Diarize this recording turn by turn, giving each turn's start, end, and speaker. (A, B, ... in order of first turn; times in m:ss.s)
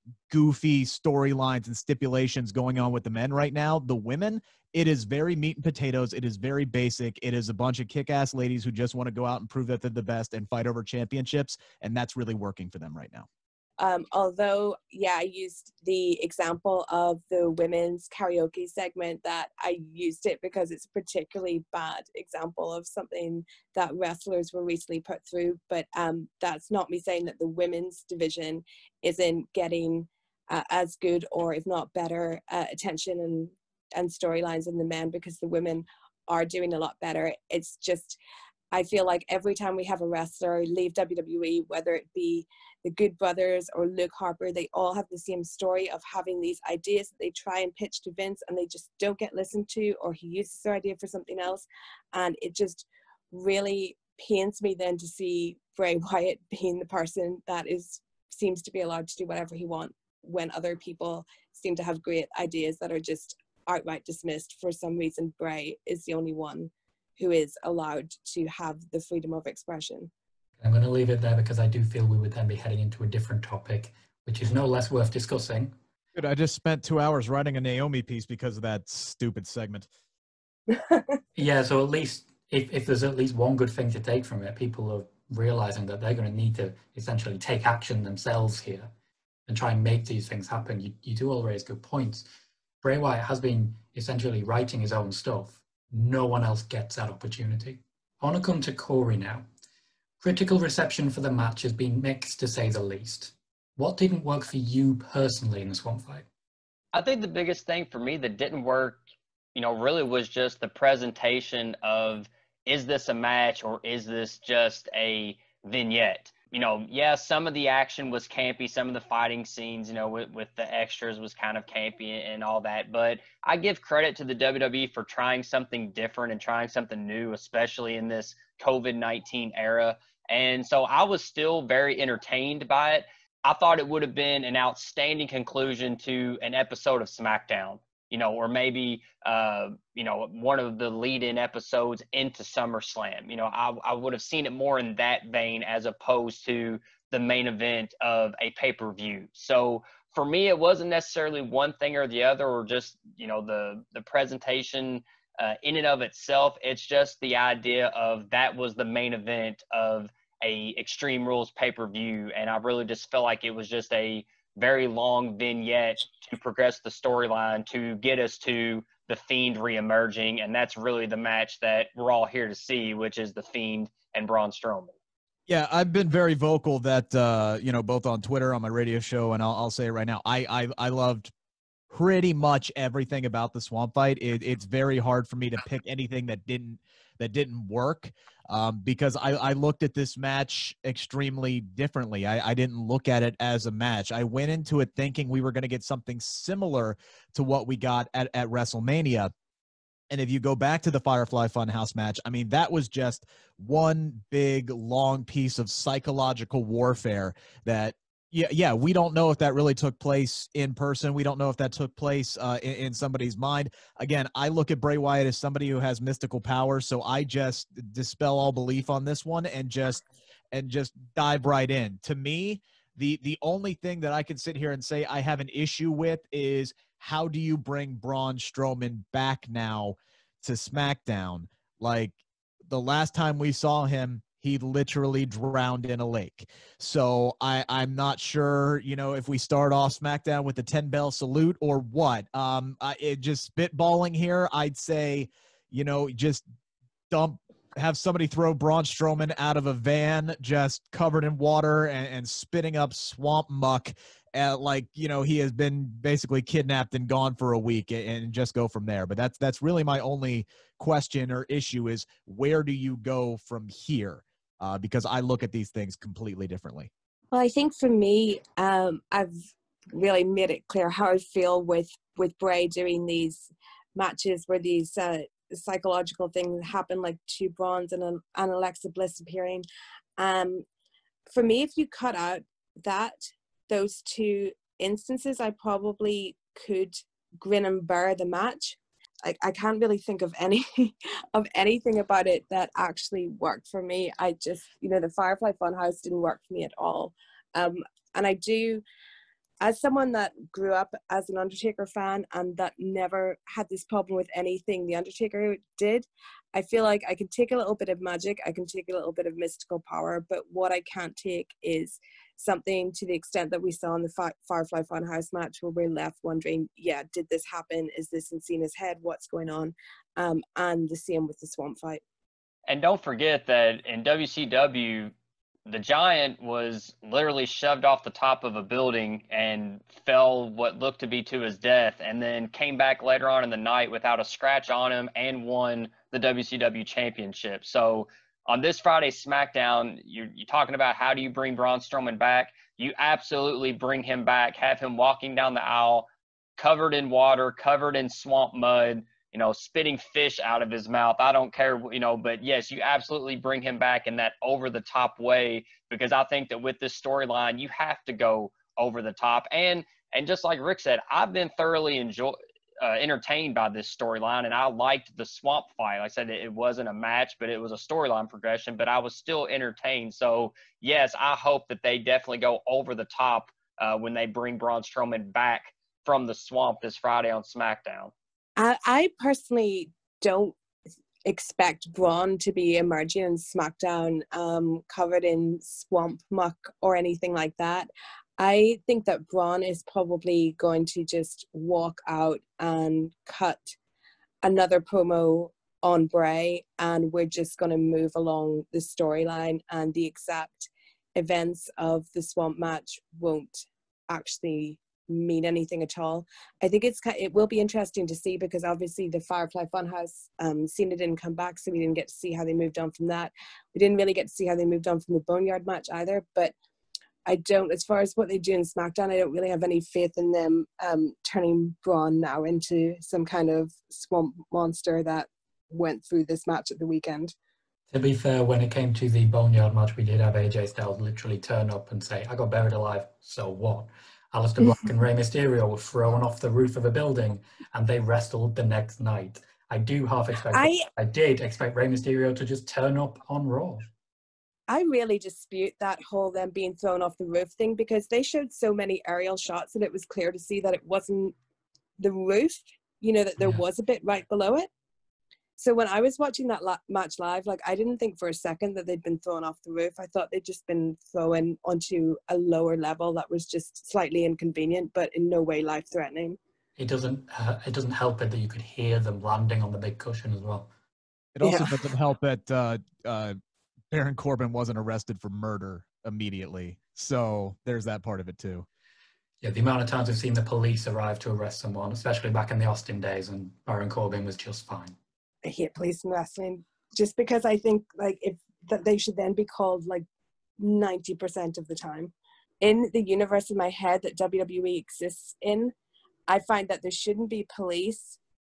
0:00.3-0:13.3 A
0:13.8-0:38.2 B
0:38.7-1:10.1 B
1:10.6-1:15.8 C
1:16.1-1:19.9 A
1:20.7-1:21.0 B
1:21.4-1:28.9 C
1:29.5-1:32.3 C
1:32.8-1:39.5 C
1:40.2-1:46.3 C
1:46.9-1:49.0 D
1:49.6-2:55.0 D
2:55.5-3:01.3 A
3:01.9-3:19.3 A
3:20.1-3:52.1 A
3:52.7-4:06.4 A
4:07.1-4:26.9 A
4:27.3-4:29.3 B
4:29.9-4:39.6 B
4:40.2-4:40.6 B
4:41.3-4:58.8 B
4:59.6-5:22.0 B
5:22.7-5:25.1 D
5:25.7-6:18.1 D
6:18.6-6:20.6 B
6:21.3-6:33.8 B
6:34.4-6:56.5 B
6:57.3-7:07.3 B
7:07.9-7:23.9 C
7:20.5-7:20.9 B
7:24.7-7:31.4 B
7:32.0-7:34.7 B
7:35.6-7:46.4 B
7:46.8-7:50.7 C
7:51.4-7:53.4 A
7:51.4-7:51.7 B
7:53.9-7:58.7 A
7:59.4-8:05.0 C
8:05.4-8:10.0 B
8:10.6-8:15.7 B
8:16.3-8:18.2 B